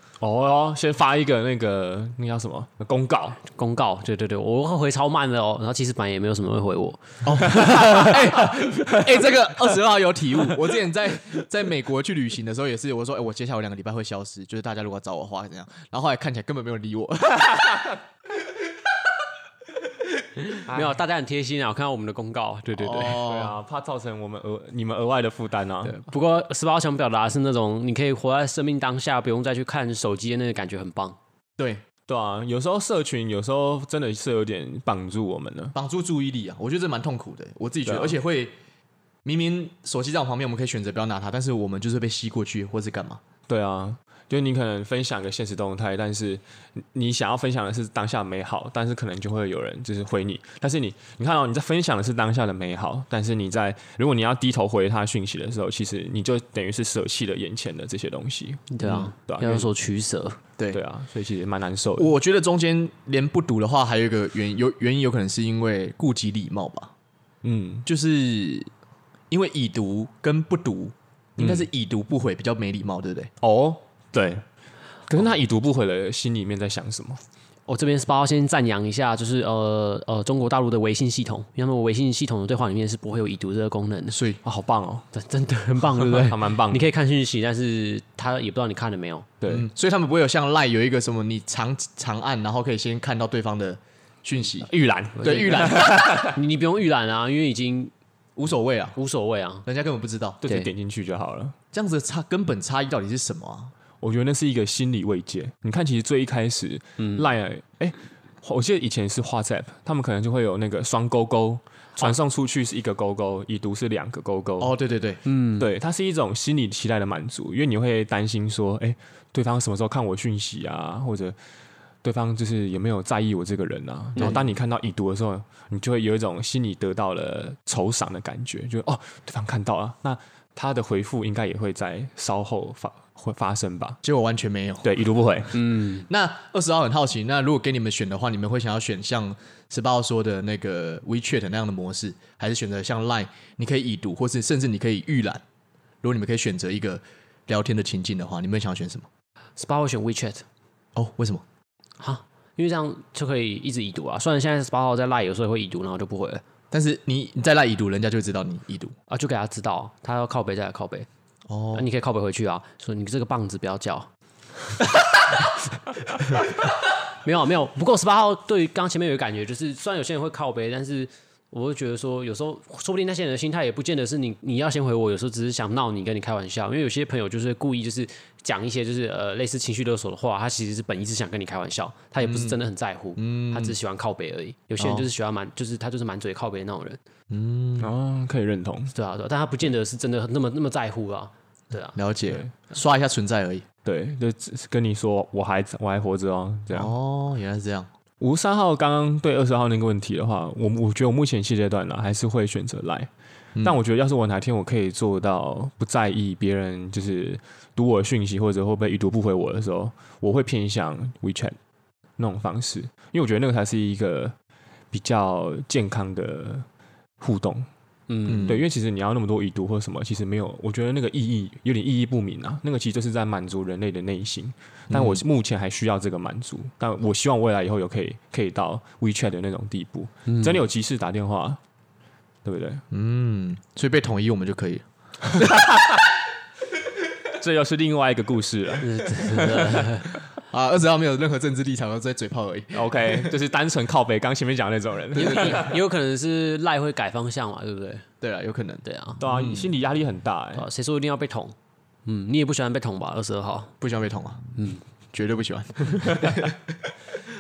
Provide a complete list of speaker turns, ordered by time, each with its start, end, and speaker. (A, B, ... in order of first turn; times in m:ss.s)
0:00.2-0:03.4 A
0:03.4-0:08.9 B
0:07.2-0:18.0 C
0:20.4-0:23.2 B
0:22.7-0:23.6 C
0:23.0-0:26.0 A
0:25.9-0:31.2 B
0:31.6-0:31.8 C
0:32.1-0:35.8 A
0:35.8-0:38.5 C
0:37.8-0:38.2 A
0:39.2-0:43.2 C
0:43.5-0:59.7 A
0:58.7-1:00.4 B
0:58.8-0:59.1 C
1:00.7-1:02.1 A
1:02.0-1:06.9 C
1:07.4-1:07.9 A
1:07.9-1:08.7 C
1:09.3-1:13.3 C
1:11.4-1:11.7 A
1:13.4-1:14.4 A
1:15.1-1:17.2 A
1:17.7-1:24.2 B
1:24.1-1:24.4 C
1:24.4-1:25.1 A
1:25.1-1:29.3 B
1:26.0-1:26.9 A
1:29.4-1:29.7 A
1:29.5-1:35.9 C
1:34.6-1:36.4 A
1:35.2-1:37.9 B
1:38.4-1:39.0 C
1:39.0-1:39.6 B
1:39.7-1:40.4 C
1:40.4-1:41.6 A
1:41.7-1:43.7 C
1:44.0-1:54.7 A
1:47.0-1:47.3 B
1:54.6-1:55.2 C
1:55.3-1:55.7 B
1:55.6-2:01.4 A
2:02.0-2:14.0 A
2:04.2-2:04.5 C
2:14.0-2:14.9 C
2:14.8-2:15.7 A
2:15.6-2:16.1 B
2:16.0-2:25.4 C
2:26.0-2:29.1 C
2:29.6-2:30.4 B
2:31.0-2:31.4 C
2:32.0-2:36.4 B
2:36.7-2:39.0 C
2:39.1-2:41.1 B
2:41.5-2:41.9 C
2:41.7-2:44.1 B
2:45.1-3:07.0 B
3:02.2-3:02.6 C
3:03.2-3:03.8 C
3:04.8-3:05.1 C
3:07.3-3:07.9 C
3:07.8-3:08.9 A
3:08.9-3:12.0 B
3:12.0-3:13.7 C
3:13.8-3:16.9 A
3:16.7-3:17.9 C
3:18.2-3:23.1 A
3:23.6-3:31.6 A
3:32.2-3:34.4 A
3:34.9-3:36.7 A
3:37.2-3:37.7 A
3:38.1-3:38.5 B
3:38.3-3:38.6 C
3:38.4-3:51.6 A
3:44.9-3:45.2 C
3:50.3-3:50.6 B
3:52.4-3:52.8 A
3:52.9-3:55.6 C
3:55.3-3:56.0 A
3:57.3-4:00.2 A
3:58.8-4:00.1 B
4:00.5-4:03.3 C
4:02.7-4:05.7 A
4:05.2-4:08.1 B
4:05.2-4:05.8 C
4:08.2-4:09.7 C
4:08.8-4:09.2 B
4:09.2-4:10.6 A
4:10.6-4:11.5 B
4:12.1-4:13.7 B
4:13.8-4:14.5 C
4:15.1-4:16.6 C
4:16.2-4:16.4 A